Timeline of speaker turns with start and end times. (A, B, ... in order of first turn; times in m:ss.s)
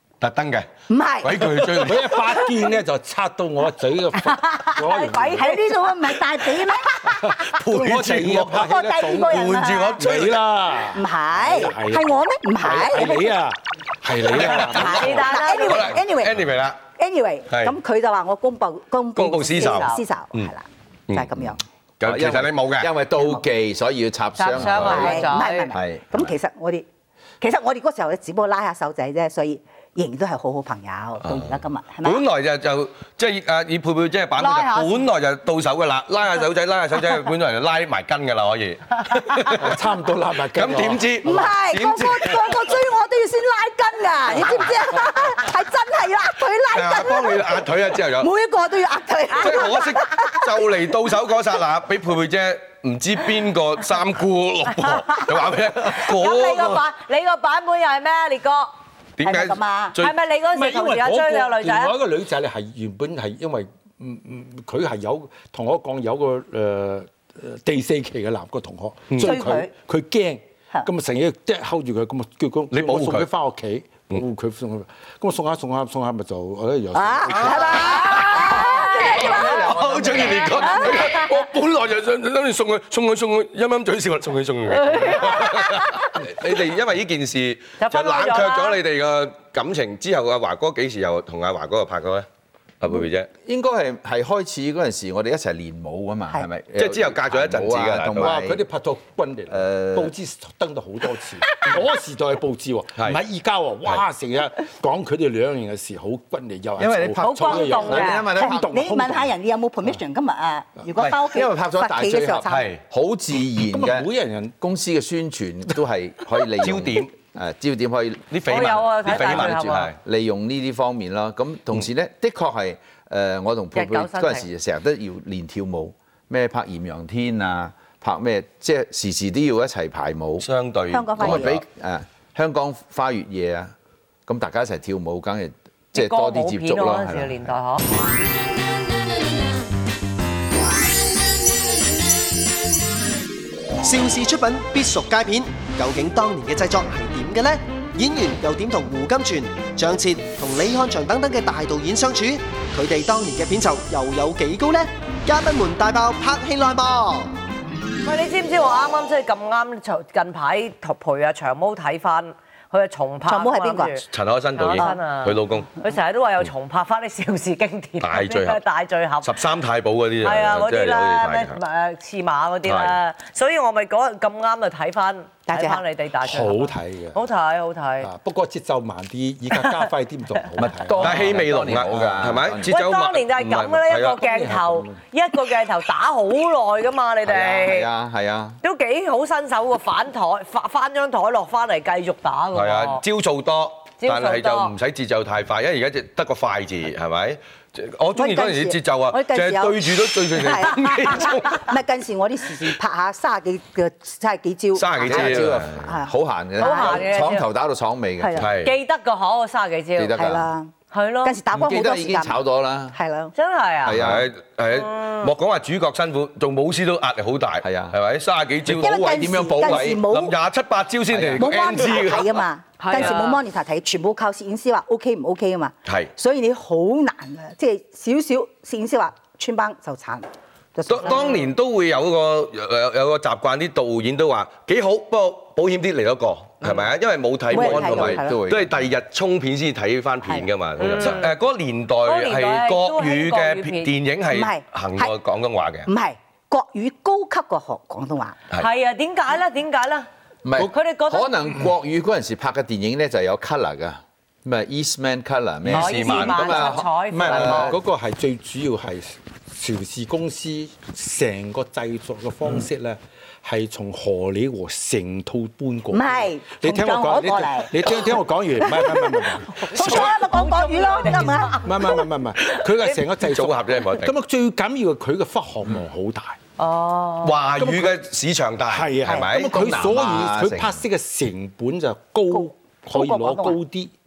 0:00.2-0:00.7 A
0:00.9-0:02.3 B
0:01.2-0:02.1 A
0:01.7-0:05.5 C
0:04.2-0:05.9 D
0:05.3-0:07.1 B
0:07.0-0:15.3 C
0:07.4-0:10.5 A
0:07.7-0:10.0 B
0:10.9-0:13.4 B
0:14.3-0:16.8 A
0:14.7-0:16.0 D
0:14.9-0:21.6 B
0:17.5-0:17.8 A
0:19.1-0:20.5 A
0:19.7-0:20.0 D
0:21.1-0:22.9 A
0:22.0-0:26.3 E
0:23.1-0:23.4 B
0:24.4-0:25.7 D
0:24.6-0:24.9 A
0:24.7-0:26.9 B
0:27.4-0:32.2 B
0:31.2-0:39.8 A
0:34.4-0:35.1 D
0:39.6-0:41.5 C
0:40.5-0:42.6 A
0:41.2-0:50.8 B
0:46.7-0:48.3 A
0:49.3-0:56.8 A
0:54.9-0:55.3 D
0:55.9-0:58.7 D
0:59.2-1:00.1 A
0:59.2-1:00.0 B
1:00.0-1:01.9 D
1:00.5-1:17.8 C
1:09.2-1:09.7 B
1:12.7-1:13.3 A
1:16.9-1:19.6 B
1:17.4-1:32.3 A
1:18.5-1:21.1 E
1:27.8-1:28.8 D
1:32.8-1:33.3 A
1:33.4-1:38.6 E
1:36.8-1:38.3 A
1:38.1-1:49.3 C
1:39.5-1:40.1 E
1:46.8-1:48.9 E
1:47.2-1:48.2 D
1:47.5-1:52.6 B
1:51.1-1:54.1 E
1:52.4-1:52.8 A
1:53.6-1:54.5 C
1:54.6-2:10.5 E
1:56.6-1:57.1 A
1:58.3-2:00.0 A
1:58.4-1:59.9 D
2:03.7-2:04.4 D
2:10.4-2:11.6 A
2:10.9-2:11.6 B
2:11.2-2:13.7 E
2:14.3-2:17.5 E
2:15.9-2:17.8 D
2:23.8-2:37.3 F
2:38.0-2:44.0 D
2:43.3-2:44.0 B
2:44.1-2:45.7 A
2:44.6-2:49.3 D
2:48.0-2:48.6 A
2:49.2-2:51.6 A
2:50.2-2:58.1 D
2:52.6-2:52.9 A
2:55.5-2:55.8 B
2:56.2-2:57.2 C
2:58.0-3:01.3 C
3:00.6-3:02.8 E
3:01.0-3:04.2 A
3:02.7-3:07.9 D
3:04.2-3:05.0 C
3:07.2-3:08.6 E
3:08.6-3:13.0 D
3:12.5-3:21.7 A
3:14.0-3:14.7 D
3:18.1-3:27.1 B
3:24.7-3:25.8 A
3:25.0-3:28.5 E
3:26.6-3:27.4 D
3:28.2-3:28.5 B
3:28.4-3:28.7 A
3:28.6-3:30.2 D
3:30.0-3:30.5 E
3:30.1-3:30.7 B
3:30.9-3:31.4 D
3:31.2-3:32.4 B
3:31.5-3:33.0 E
3:32.9-3:33.3 B
3:33.3-3:34.0 D
3:33.8-3:34.2 E
3:33.9-3:42.4 A
3:35.0-3:35.2 D
3:37.6-3:38.0 E
3:38.6-3:40.1 E
3:38.7-3:40.3 B
3:41.1-3:41.5 E
3:41.4-3:51.5 B
3:42.8-3:43.4 D
3:45.8-3:46.1 A
3:50.9-4:05.9 A
3:57.5-3:58.4 B
3:57.5-3:58.8 E
4:00.8-4:01.3 D
4:02.0-4:03.9 D
4:04.3-4:05.1 B
4:05.9-4:08.4 B
4:08.5-4:10.1 D
4:10.4-4:17.8 E
4:10.7-4:11.3 D
4:15.6-4:16.8 A
4:15.7-4:17.7 D
4:17.1-4:30.1 C
4:25.9-4:31.9 B
4:29.5-4:33.0 D
4:31.6-4:36.4 C
4:33.2-4:34.1 A
4:36.6-4:37.3 D
4:37.2-4:39.7 A
4:37.6-4:38.0 C
4:38.7-4:43.9 C
4:39.0-4:39.3 B
4:39.4-4:40.8 E
4:42.3-4:43.6 B